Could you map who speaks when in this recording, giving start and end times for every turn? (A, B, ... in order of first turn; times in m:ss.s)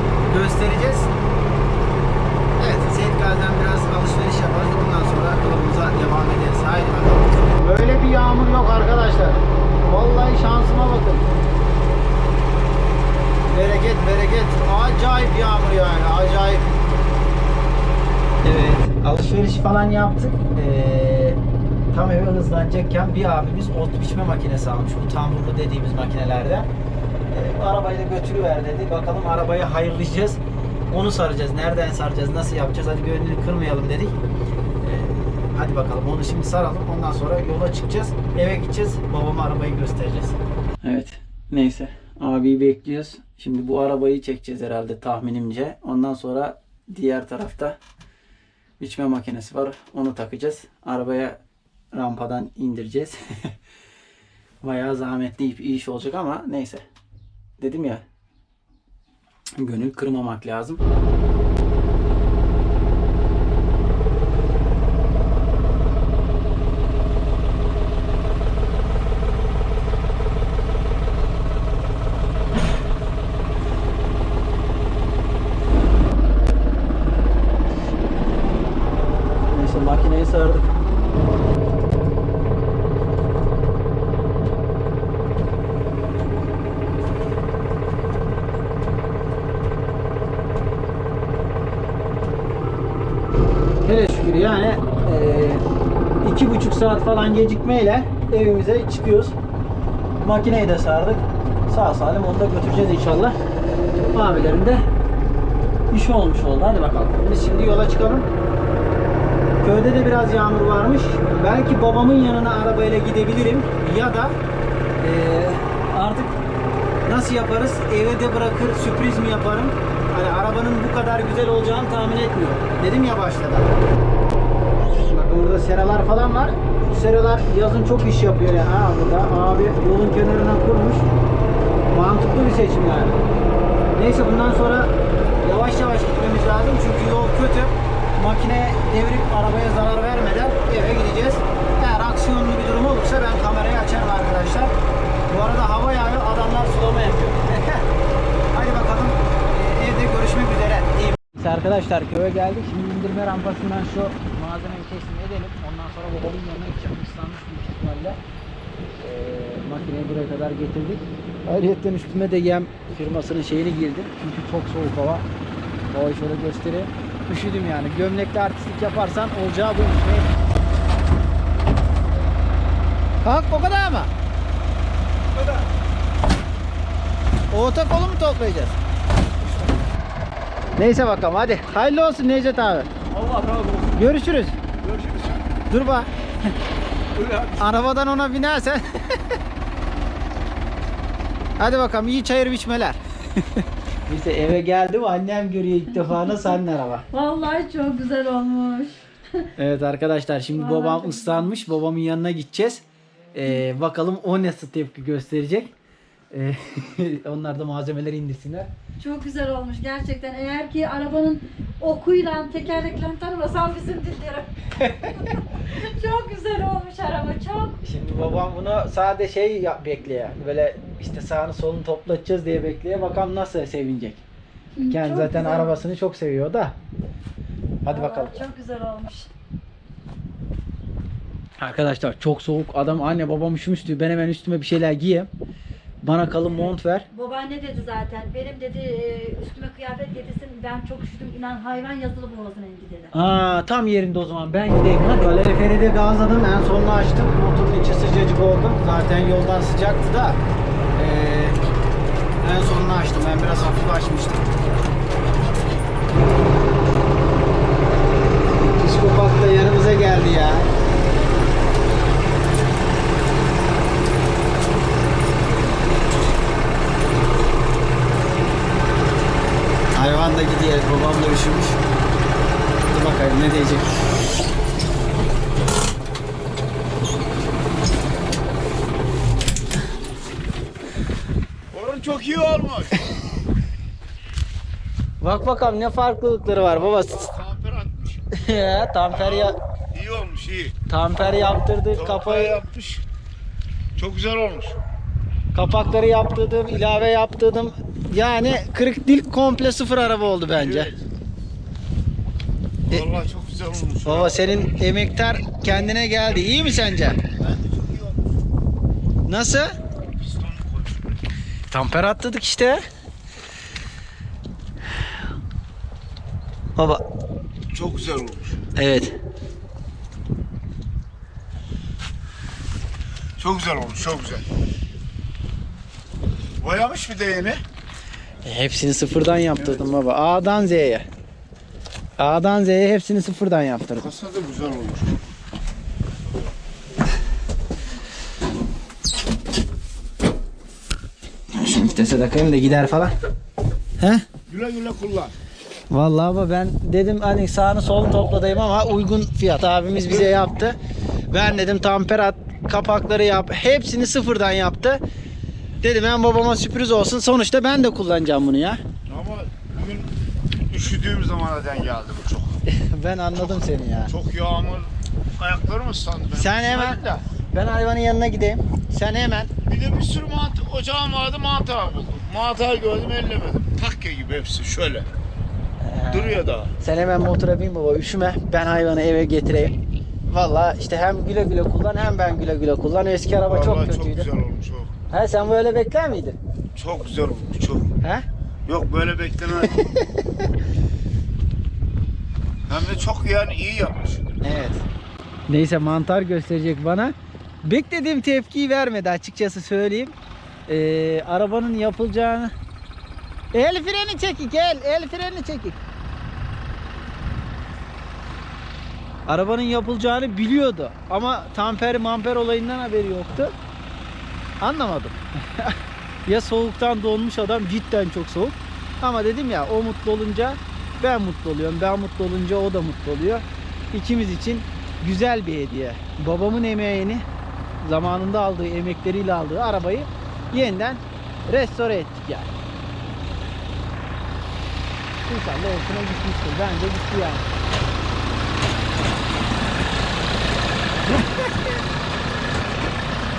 0:00.2-0:01.1 A
0:02.6-0:11.3 A
0:13.5-0:16.8 A
0:18.4-0:26.7 A
0:27.3-0:34.2 A
0:34.8-0:47.8 A
0:48.8-0:51.4 A
0:51.9-0:53.6 A
0:54.6-0:56.8 A
0:57.6-0:58.0 A
0:59.6-1:00.8 A
1:19.5-1:20.7 A
1:33.8-1:35.6 A
1:36.2-1:39.4 A
1:40.2-1:43.4 A
1:43.9-1:44.8 A
1:45.9-1:48.3 A
1:49.6-1:54.4 A
1:55.0-1:56.4 A
1:57.0-2:03.8 A
2:05.1-2:11.1 A
2:11.9-2:13.2 A
2:14.0-2:24.7 A
2:25.3-2:27.9 A
2:28.5-2:38.2 A
2:39.0-2:45.3 A
2:45.9-2:50.3 A
2:53.2-2:54.1 A
2:55.4-2:55.7 B
2:57.5-2:58.8 A
2:59.4-2:59.7 B
3:00.8-3:02.9 A
3:03.1-3:03.9 B
3:03.9-3:04.6 A
3:04.8-3:05.5 B
3:05.7-3:06.1 A
3:07.2-3:07.6 B
3:07.5-3:09.3 A
3:11.6-3:13.0 A
3:13.6-3:17.1 A
3:17.1-3:19.5 C
3:19.6-3:25.7 A
3:20.5-3:21.7 C
3:26.3-3:28.7 A
3:29.0-3:37.8 C
3:37.8-3:44.2 A
3:44.8-3:45.8 C
3:44.9-3:46.8 A
3:47.8-3:48.4 A
3:47.9-3:49.3 C
3:51.6-3:55.3 A
3:56.0-3:57.1 A
3:57.1-4:03.1 C
4:03.1-4:10.4 A
4:11.0-4:11.6 A
4:12.4-4:14.5 A
4:18.6-4:20.7 A
4:30.0-4:31.8 A
4:32.9-4:33.9 A
4:41.7-4:43.1 B
4:45.2-4:47.3 A
4:47.1-4:48.2 B
4:48.3-4:49.6 A
4:49.1-4:50.8 B
4:50.9-4:52.6 A
4:52.0-4:53.0 B
4:54.0-4:54.8 B
4:55.5-5:00.9 A
5:00.5-5:01.0 B
5:02.9-5:04.4 B
5:04.0-5:07.2 A
5:07.4-5:08.2 B
5:09.3-5:09.8 A
5:10.2-5:11.2 B
5:11.7-5:12.8 A
5:16.8-5:17.0 A
5:17.7-5:18.6 B
5:18.8-5:19.2 A
5:23.4-5:24.5 B
5:26.6-5:27.6 B
5:28.4-5:31.1 A
5:32.2-5:34.1 A
5:34.0-5:35.2 B
5:41.5-5:43.1 A
5:44.0-5:44.3 A
5:44.5-5:45.3 B
5:45.9-5:50.8 A
5:51.3-5:55.0 A
5:55.8-5:58.8 A
5:59.1-6:00.2 B
6:00.7-6:02.6 B
6:02.7-6:04.1 A
6:04.1-6:07.2 B
6:06.3-6:09.5 A
6:09.7-6:15.1 B
6:15.8-6:19.8 A
6:16.1-6:16.8 B
6:20.3-6:24.3 A
6:23.4-6:24.9 B
6:25.1-6:26.4 A
6:26.8-6:27.9 B
6:28.7-6:29.9 B
6:29.7-6:30.3 A
6:32.7-6:34.3 B
6:34.4-6:34.9 A
6:35.5-6:40.2 A
6:40.7-6:42.5 A
6:43.5-6:45.8 A
6:49.3-6:53.6 A
6:54.6-7:07.2 A
7:07.8-7:12.5 A
7:15.2-7:17.4 A